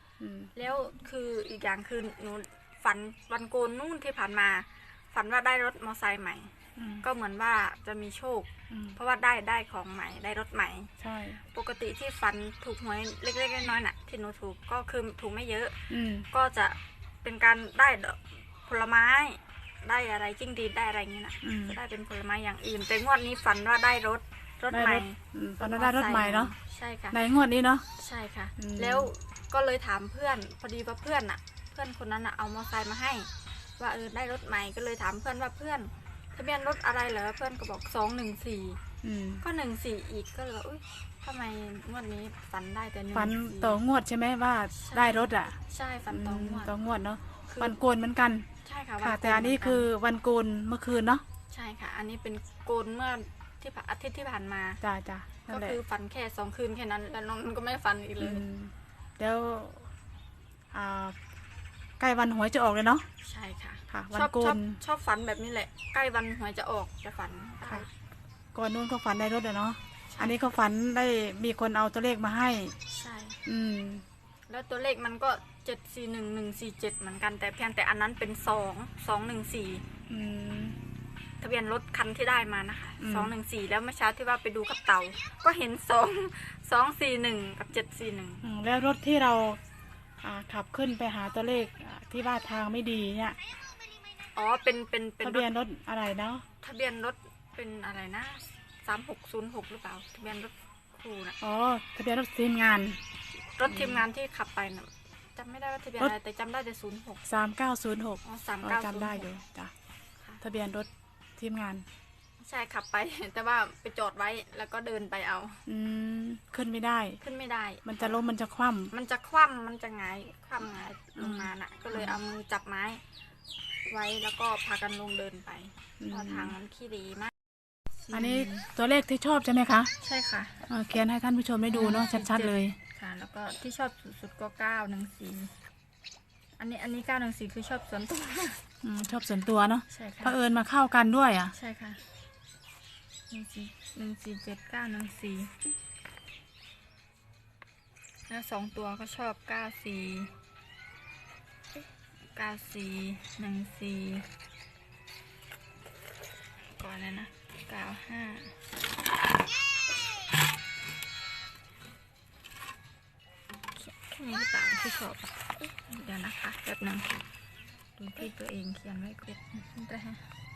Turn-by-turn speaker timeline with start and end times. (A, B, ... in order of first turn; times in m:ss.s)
0:00.2-0:00.5 A
0:00.5-0:06.5 B
0:06.8-0:07.0 A
0:07.0-0:10.9 B
0:08.7-0:09.0 A
0:11.0-0:11.4 A
0:11.5-0:15.8 B
0:15.9-0:16.3 A
0:16.3-0:27.2 B
0:21.4-0:21.8 A
0:24.7-0:26.5 A
0:27.1-0:27.8 A
0:28.0-0:38.8 B
0:28.6-0:29.1 A
0:39.0-0:39.4 A
0:39.4-0:43.8 B
0:43.1-0:45.5 A
0:44.7-0:46.7 B
0:46.1-0:48.4 A
0:47.5-0:47.7 B
0:48.6-0:49.9 B
0:49.0-0:51.2 A
0:51.5-0:54.8 B
0:54.8-0:55.8 A
0:55.5-0:58.4 B
0:58.2-0:59.9 A
1:00.7-1:01.1 A
1:02.0-1:03.0 A
1:03.2-1:07.9 B
1:03.9-1:04.8 A
1:08.5-1:12.7 A
1:10.1-1:10.3 B
1:12.9-1:13.4 B
1:13.4-1:14.0 A
1:14.5-1:19.8 B
1:20.1-1:20.8 A
1:21.4-1:28.4 B
1:23.0-1:23.3 A
1:28.4-1:29.6 A
1:30.2-1:33.4 A
1:34.3-1:35.5 B
1:35.2-1:36.4 A
1:36.6-1:41.4 B
1:41.4-1:43.0 A
1:43.6-1:47.2 B
1:43.6-1:44.0 A
1:47.3-1:49.7 A
1:48.2-1:49.3 B
1:50.4-1:51.8 A
1:52.4-1:55.6 B
1:55.7-1:57.2 A
1:57.2-1:58.2 B
1:57.8-1:58.9 A
1:58.9-2:03.0 B
2:01.2-2:02.2 A
2:03.9-2:07.3 B
2:06.0-2:06.5 A
2:08.0-2:08.7 B
2:08.1-2:09.9 A
2:10.0-2:10.6 B
2:10.7-2:12.7 A
2:11.7-2:15.5 B
2:16.6-2:18.6 B
2:18.8-2:21.5 A
2:19.9-2:20.4 B
2:21.5-2:22.0 B
2:23.3-2:25.5 B
2:28.3-2:30.3 B
2:32.3-2:34.2 B
2:36.8-2:38.5 B
2:43.7-2:47.2 B
2:48.0-2:50.2 B